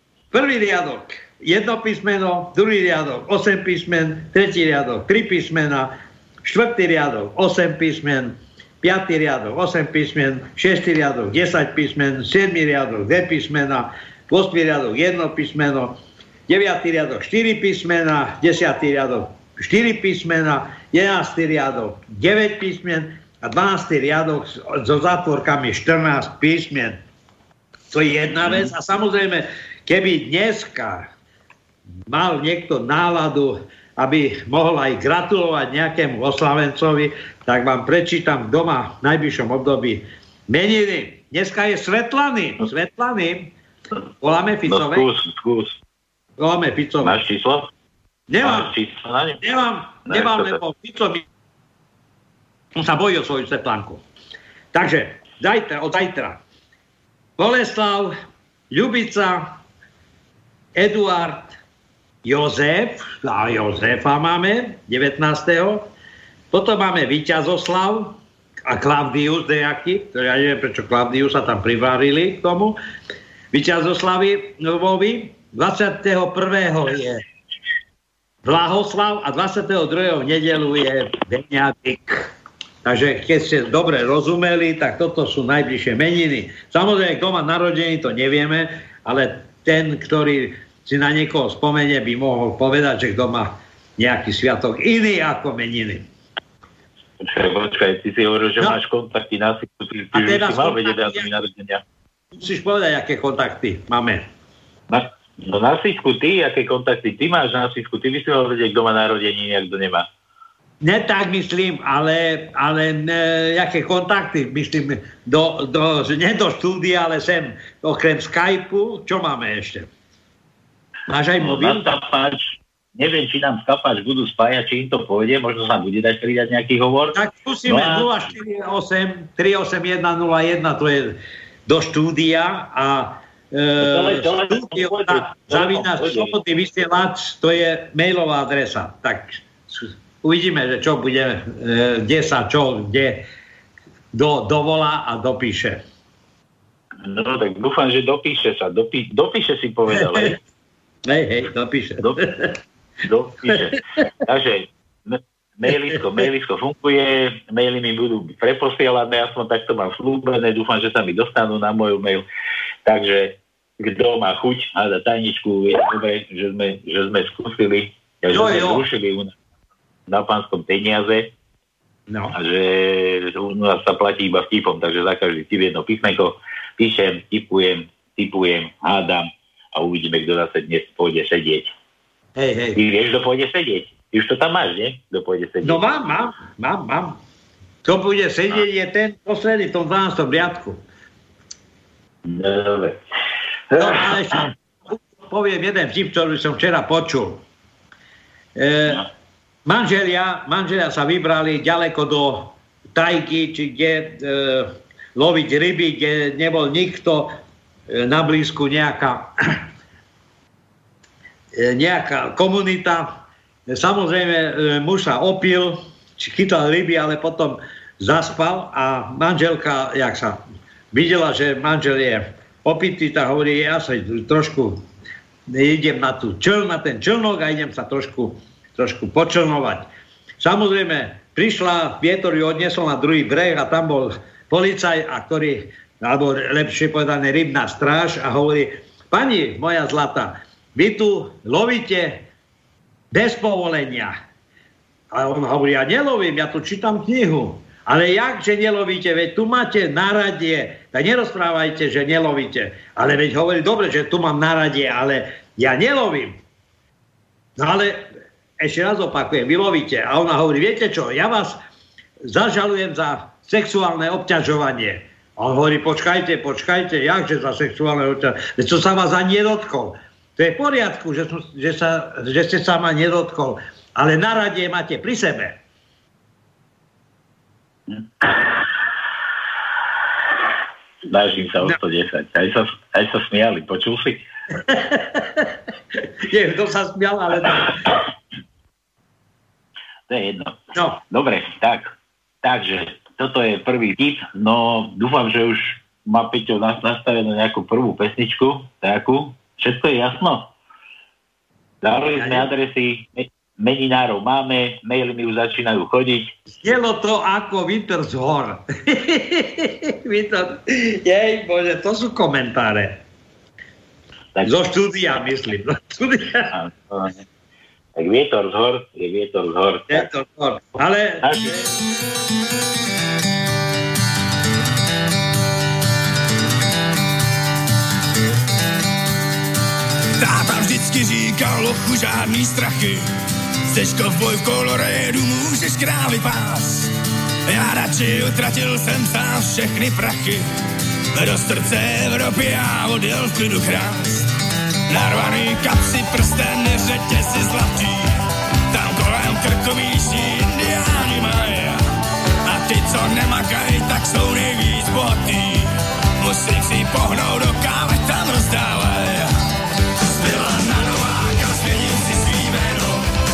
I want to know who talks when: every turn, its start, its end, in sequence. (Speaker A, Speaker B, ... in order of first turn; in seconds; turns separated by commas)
Speaker A: 0.3-16.0, Speaker A: 16.5-27.0, Speaker A: 27.9-31.1, Speaker A: 32.1-43.5, Speaker A: 44.2-45.1, Speaker B: 44.6-45.8, Speaker A: 46.4-47.2, Speaker B: 47.0-47.7, Speaker A: 48.3-48.7, Speaker B: 48.4-49.4, Speaker A: 49.4-51.2, Speaker B: 50.0-50.6, Speaker A: 52.7-54.0, Speaker A: 54.7-56.4, Speaker A: 57.4-58.1, Speaker A: 58.7-59.6, Speaker A: 60.7-61.5, Speaker A: 62.2-65.9, Speaker A: 66.5-72.8, Speaker A: 73.5-77.2, Speaker A: 78.4-82.3, Speaker A: 82.8-96.0, Speaker B: 97.2-101.8, Speaker A: 100.1-101.3, Speaker A: 102.3-104.3, Speaker B: 104.9-110.1, Speaker A: 110.8-119.9, Speaker A: 121.1-121.9, Speaker B: 121.4-128.3, Speaker A: 127.1-143.2, Speaker B: 133.8-136.4, Speaker A: 144.1-145.8, Speaker B: 147.0-150.4, Speaker A: 149.9-150.3, Speaker A: 151.1-152.5, Speaker B: 153.1-162.2, Speaker A: 155.7-156.0, Speaker B: 162.8-169.3, Speaker A: 168.3-168.8, Speaker B: 170.1-171.3, Speaker A: 172.1-172.3, Speaker B: 172.3-181.7, Speaker A: 182.3-182.8, Speaker B: 182.7-185.8, Speaker A: 185.6-187.2, Speaker A: 187.8-190.8, Speaker B: 192.2-193.0, Speaker B: 193.7-194.3, Speaker A: 193.8-197.4, Speaker A: 198.6-199.0, Speaker A: 199.7-207.3, Speaker A: 207.9-209.6, Speaker A: 211.5-224.8, Speaker A: 225.5-229.9, Speaker A: 230.4-242.2, Speaker A: 243.1-244.2, Speaker A: 245.1-256.4, Speaker A: 257.6-261.6, Speaker A: 262.2-275.6, Speaker B: 281.1-284.2, Speaker A: 284.6-285.5, Speaker A: 286.3-287.8, Speaker B: 290.1-290.6, Speaker A: 290.7-291.0, Speaker B: 291.1-300.5, Speaker B: 301.8-306.3, Speaker A: 302.1-302.5, Speaker A: 306.5-313.0, Speaker A: 314.4-316.5, Speaker B: 316.5-317.2, Speaker B: 317.9-320.1, Speaker A: 319.9-321.6, Speaker B: 321.2-321.5, Speaker C: 330.2-333.1, Speaker C: 333.7-336.9, Speaker C: 337.5-340.5, Speaker C: 341.1-344.3, Speaker C: 344.9-348.2, Speaker C: 348.7-351.9, Speaker C: 352.4-359.3, Speaker C: 360.0-363.1